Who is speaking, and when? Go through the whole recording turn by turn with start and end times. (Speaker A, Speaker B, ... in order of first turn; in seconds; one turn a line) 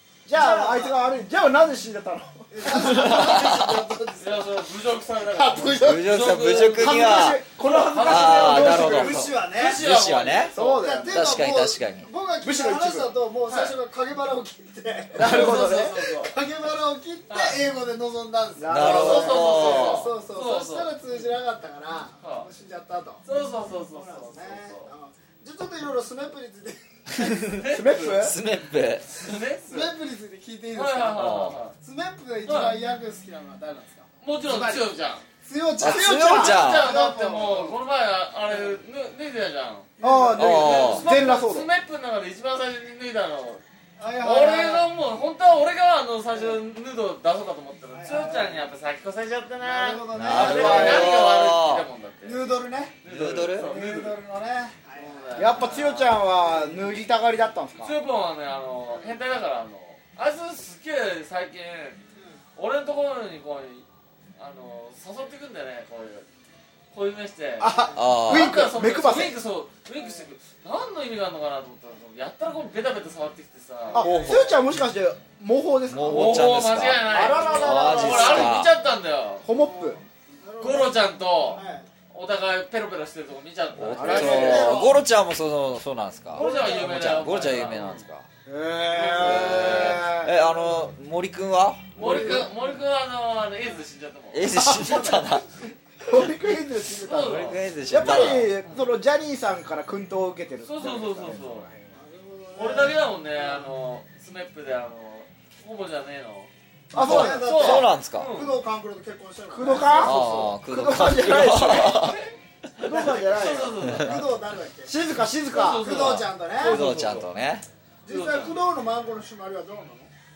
Speaker A: 0.2-3.4
Speaker B: 0.3-1.0
Speaker B: 2.5-4.5
Speaker C: 2.7-3.7
Speaker D: 4.2-10.7
Speaker B: 5.2-6.0
Speaker C: 5.8-7.4
Speaker A: 6.8-9.3
Speaker C: 8.0-10.5
Speaker B: 8.5-9.8
Speaker A: 10.5-11.4
Speaker B: 10.6-23.2
Speaker C: 11.1-12.1
Speaker A: 12.4-13.2
Speaker A: 15.1-16.1
Speaker D: 15.2-16.3
Speaker D: 17.3-17.6
Speaker A: 18.6-19.9
Speaker C: 18.7-20.1
Speaker D: 18.8-21.0
Speaker D: 22.2-22.5
Speaker D: 23.2-24.9
Speaker B: 23.9-27.4
Speaker A: 27.2-28.4
Speaker C: 27.2-29.2
Speaker D: 27.6-28.1
Speaker D: 29.1-29.9
Speaker B: 29.6-31.3
Speaker D: 30.8-31.8
Speaker C: 31.1-31.6
Speaker B: 31.8-34.8
Speaker D: 32.5-32.8
Speaker D: 34.2-35.2
Speaker B: 35.4-37.8
Speaker C: 35.8-36.9
Speaker A: 35.8-36.5
Speaker D: 36.3-39.9
Speaker B: 38.5-38.8
Speaker B: 40.0-41.0
Speaker A: 40.0-41.7
Speaker C: 40.4-41.0
Speaker D: 40.4-43.6
Speaker B: 44.0-44.9
Speaker D: 44.2-52.4
Speaker B: 47.9-48.7
Speaker B: 49.6-51.1
Speaker C: 50.1-51.9
Speaker A: 50.3-51.2
Speaker B: 52.2-53.0
Speaker D: 53.0-54.2
Speaker C: 53.1-53.7
Speaker B: 53.6-56.8
Speaker D: 54.9-55.9
Speaker A: 55.4-57.9
Speaker D: 57.8-62.0
Speaker B: 58.9-59.2
Speaker D: 62.6-63.8
Speaker D: 64.4-66.3
Speaker D: 66.9-74.1
Speaker A: 67.6-69.4
Speaker C: 68.0-68.7
Speaker B: 70.0-70.2
Speaker A: 73.9-78.7
Speaker B: 73.9-74.3
Speaker C: 74.0-74.5
Speaker C: 75.9-78.7
Speaker D: 76.1-79.4
Speaker B: 77.2-78.5
Speaker A: 79.4-80.0
Speaker B: 79.5-81.9
Speaker D: 80.6-84.8
Speaker C: 83.8-88.3
Speaker A: 84.0-84.9
Speaker B: 84.0-85.0
Speaker D: 86.3-88.1
Speaker B: 86.3-87.5
Speaker A: 88.5-90.3
Speaker B: 88.9-89.6
Speaker D: 89.0-90.5
Speaker C: 89.2-91.9
Speaker D: 92.0-94.4
Speaker B: 92.0-92.8
Speaker A: 92.0-92.5
Speaker C: 94.3-95.5
Speaker A: 94.5-95.2
Speaker A: 96.0-102.0
Speaker D: 97.0-98.8
Speaker C: 97.2-98.5
Speaker D: 100.6-101.7
Speaker B: 101.9-103.7
Speaker D: 102.6-106.5
Speaker A: 106.9-107.8
Speaker C: 106.9-108.3
Speaker B: 107.0-110.2
Speaker D: 107.2-108.6
Speaker A: 109.5-112.2
Speaker C: 110.0-112.2
Speaker D: 111.3-112.1
Speaker A: 112.8-113.8
Speaker D: 112.8-114.3
Speaker C: 113.8-114.2
Speaker B: 114.0-114.9
Speaker A: 114.8-115.9
Speaker D: 115.5-116.3
Speaker B: 115.8-116.8
Speaker A: 116.6-117.3
Speaker C: 116.6-117.7
Speaker B: 118.1-120.1
Speaker D: 118.1-118.5